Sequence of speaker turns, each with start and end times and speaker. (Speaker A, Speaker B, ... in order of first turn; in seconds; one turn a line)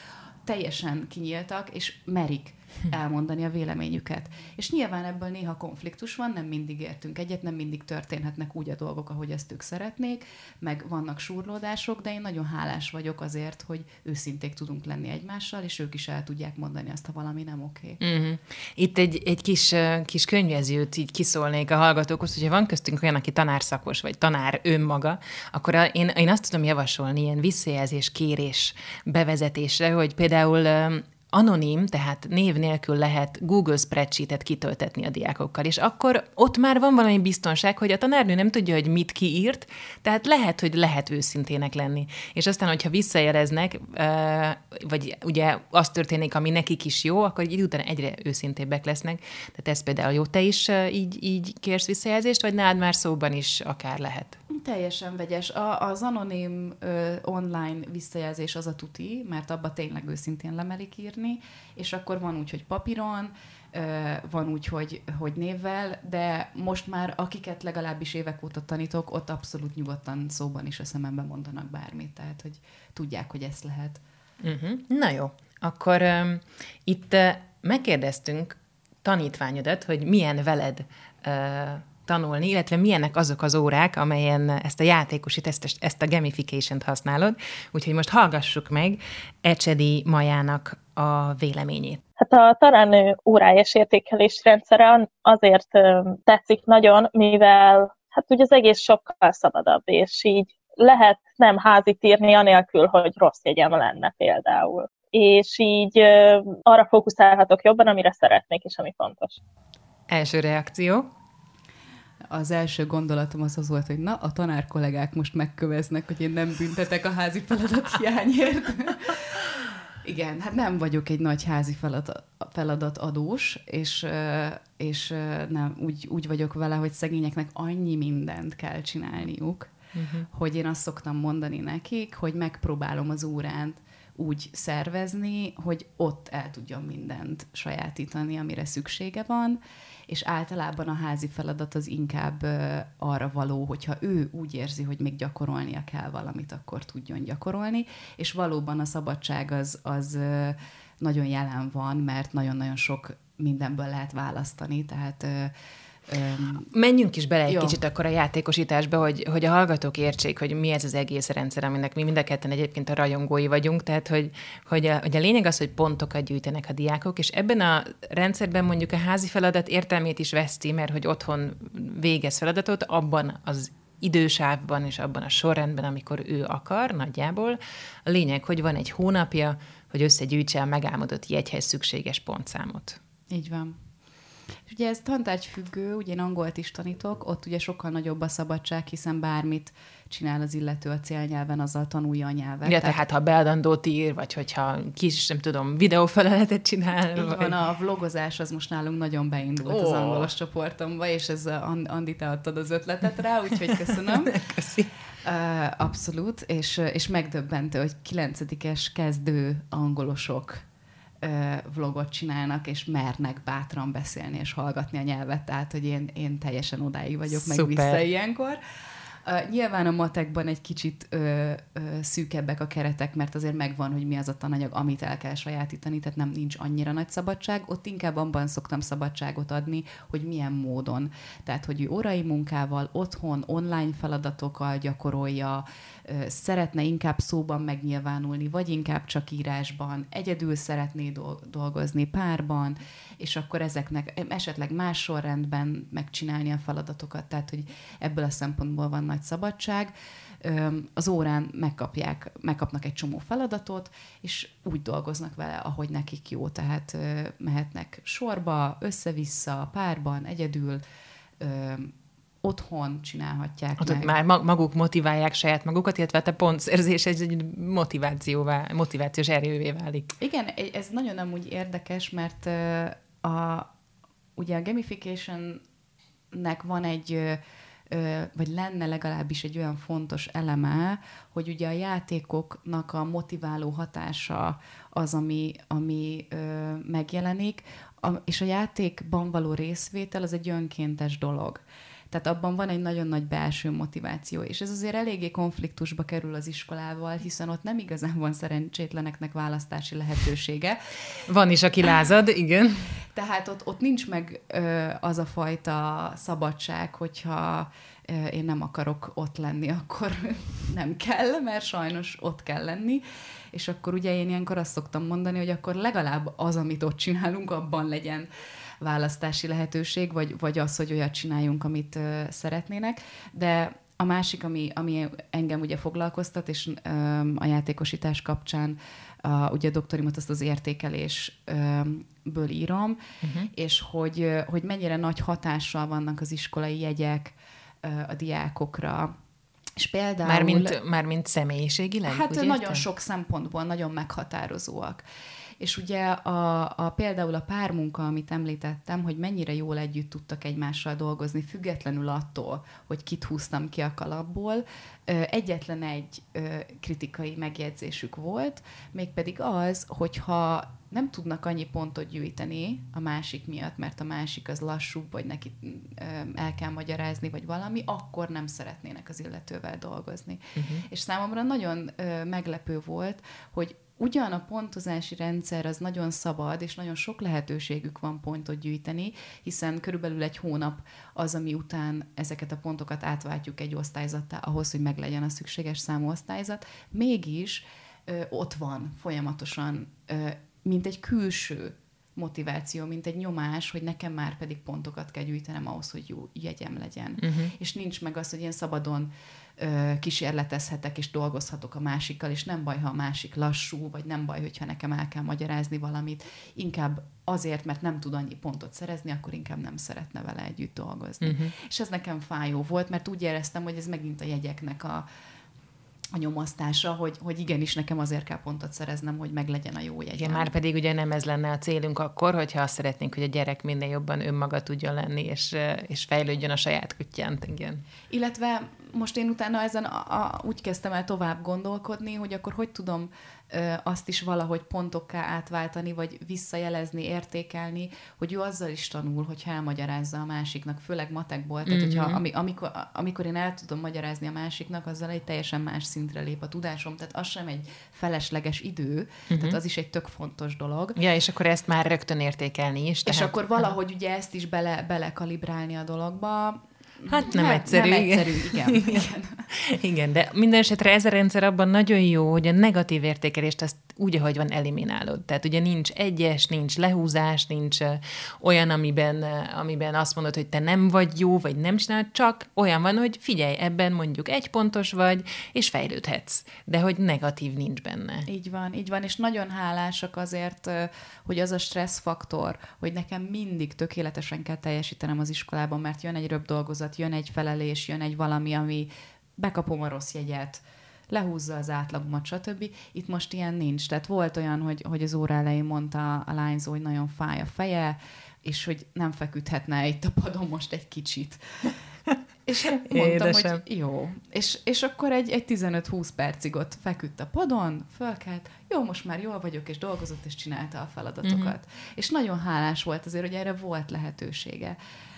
Speaker A: 0.4-18.0
Speaker B: 18.0-54.4
Speaker A: 54.5-74.0
Speaker B: 74.4-92.0
Speaker C: 92.2-109.4
Speaker B: 110.1-111.1
Speaker A: 112.3-129.7
Speaker B: 129.9-130.3
Speaker A: 130.3-155.5
Speaker A: 156.1-156.7
Speaker B: 156.7-183.0
Speaker A: 157.5-157.8
Speaker A: 183.3-183.8
Speaker A: 184.7-193.0
Speaker B: 192.6-197.6
Speaker A: 197.1-204.4
Speaker B: 199.6-200.3
Speaker B: 203.9-204.9
Speaker A: 205.2-210.6
Speaker A: 211.2-218.6
Speaker B: 217.3-218.0
Speaker A: 219.2-260.8
Speaker A: 261.4-264.1
Speaker B: 263.8-270.1
Speaker A: 270.2-273.7
Speaker A: 274.4-275.6
Speaker A: 276.3-301.2
Speaker B: 301.3-302.9
Speaker A: 303.1-318.3
Speaker A: 318.8-333.0
Speaker B: 333.2-333.5
Speaker A: 333.5-339.1
Speaker A: 339.8-340.8
Speaker B: 340.2-342.8
Speaker A: 342.1-345.0
Speaker A: 345.6-415.1
Speaker B: 370.6-370.8
Speaker B: 397.2-397.5
Speaker B: 411.2-411.5
Speaker A: 416.1-420.5
Speaker B: 420.2-427.8
Speaker A: 428.1-451.0
Speaker B: 441.6-442.2
Speaker B: 449.3-449.6
Speaker B: 450.9-453.3
Speaker A: 453.0-459.5
Speaker B: 457.1-478.3
Speaker A: 478.2-501.7
Speaker A: 502.4-514.8
Speaker B: 502.7-503.6
Speaker B: 511.2-511.5